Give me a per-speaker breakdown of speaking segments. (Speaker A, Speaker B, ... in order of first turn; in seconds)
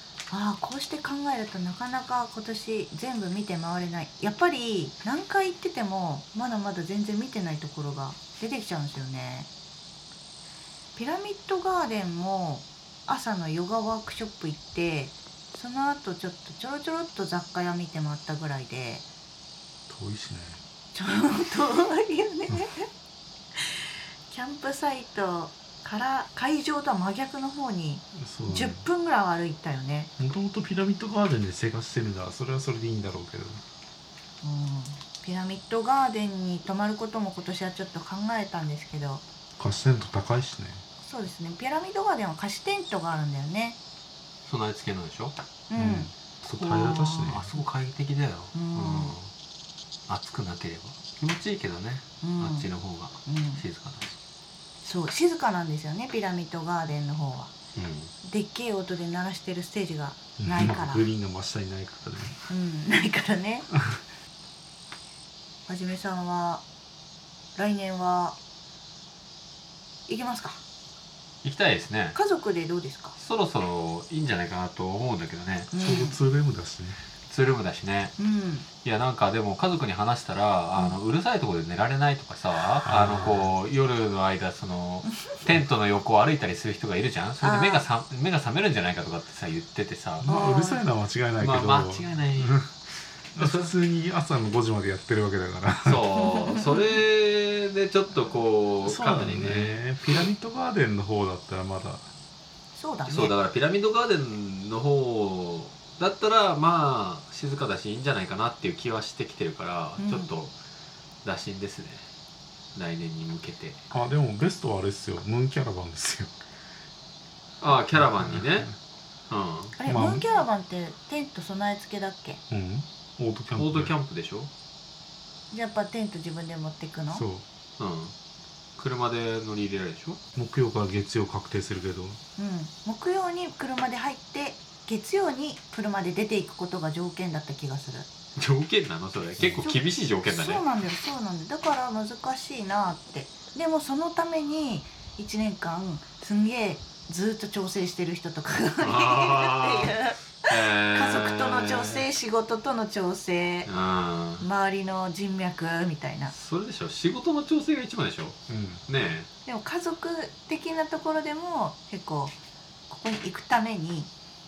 Speaker A: 0.3-9.5, 11.0-19.1, 20.9-22.9, 23.6-30.1, 34.4-39.2, 41.0-43.8, 45.7-46.1, 48.5-49.1, 52.2-52.7, 53.3-53.6, 54.8-57.5, 58.2-61.0, 62.5-63.7, 65.7-66.6, 67.6-68.4, 70.1-70.6, 72.2-73.2, 75.7-76.2, 78.2-78.7, 87.4-87.8, 90.3-90.8, 96.2-96.8, 102.8-103.3, 110.0-110.3, 119.8-122.4, 125.5-127.2, 132.4-138.1, 139.6-153.7, 154.4-156.3, 159.5-162.3, 162.9-164.1
Speaker B: 19.9-20.6, 28.1-28.8, 30.2-33.6, 39.6-40.8, 45.8-47.5, 60.4-62.4, 75.8-77.0, 82.9-83.5, 90.2-92.7, 93.4-96.1, 98.8-102.0, 113.9-116.3, 118.0-118.5, 119.9-120.2, 122.5-123.9, 127.1-127.4, 130.3-132.2, 158.5-158.8
Speaker C: 44.5-45.4, 46.6-49.3, 50.1-54.2, 57.8-58.1, 71.4-72.2, 73.2-75.7, 77.3-78.2, 78.8-90.3, 91.4-92.7, 93.3-93.7, 95.8-99.8, 103.1-110.5, 111.2-112.0, 112.8-113.8, 117.6-118.7, 119.3-119.8, 123.6-124.5, 127.8-128.1, 128.8-130.2, 138.4-140.6, 148.8-152.1, 153.7-154.4, 156.3-159.3